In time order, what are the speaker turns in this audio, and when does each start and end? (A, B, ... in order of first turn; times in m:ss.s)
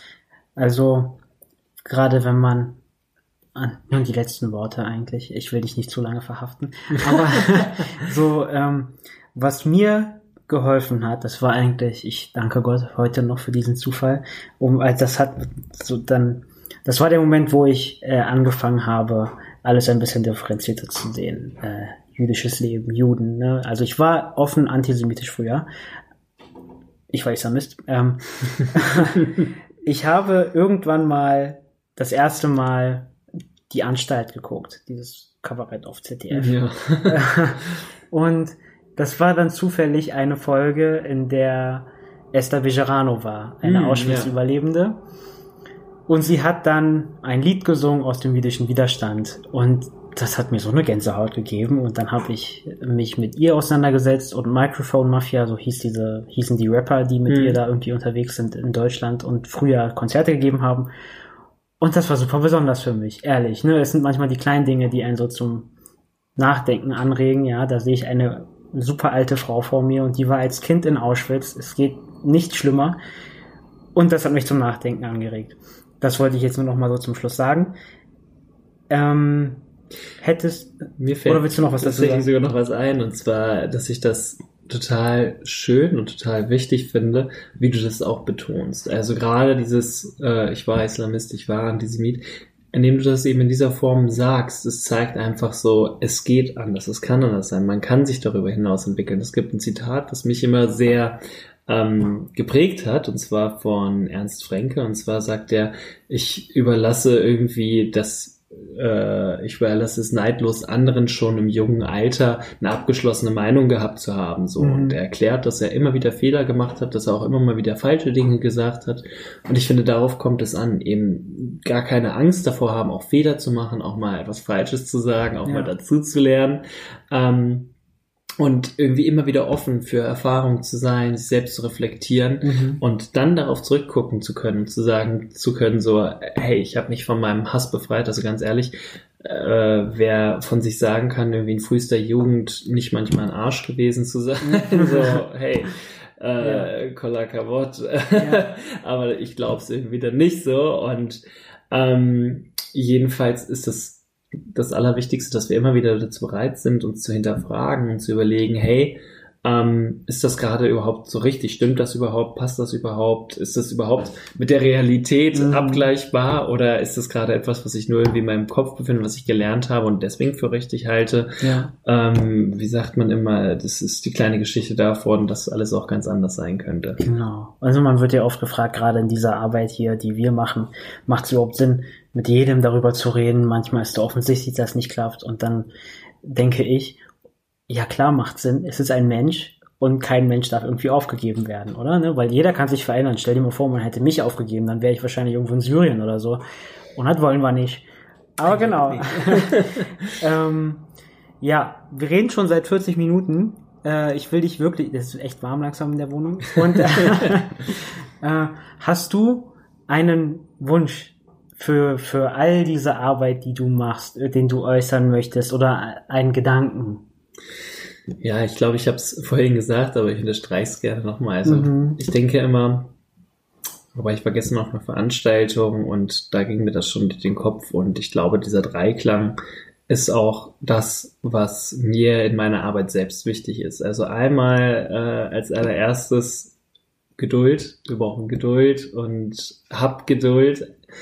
0:00.6-0:01.2 A
0:01.8-0:02.8 A
0:03.5-0:25.6 A
0:07.0-0:07.6 B
0:27.1-0:29.3 A
0:29.8-0:33.1 A
0:33.7-0:45.0 A
0:36.3-0:37.2 B
0:43.6-0:44.3 B
0:46.1-1:00.9 A
0:57.3-0:57.6 B
1:01.8-1:05.7 A
1:06.4-1:13.0 A
1:13.9-1:17.7 A
1:18.9-1:19.6 A
1:20.2-1:22.3 A
1:21.0-2:07.7 B
1:54.6-1:55.0 A
2:05.4-2:05.7 A
2:08.4-2:57.0 B
2:12.4-2:12.8 A
2:24.4-2:25.2 A
2:26.4-2:26.7 A
2:28.1-2:28.4 A
2:45.3-2:45.9 A
2:51.4-2:51.7 A
2:57.0-3:05.7 A
3:06.2-3:07.0 A
3:07.7-3:16.4 A
3:16.9-3:20.8 A
3:18.5-3:20.0 B
3:21.4-3:37.0 A
3:38.2-3:42.9 B
3:41.4-3:42.0 A
3:43.9-3:49.4 B
3:49.9-3:56.5 B
3:57.2-4:00.7 B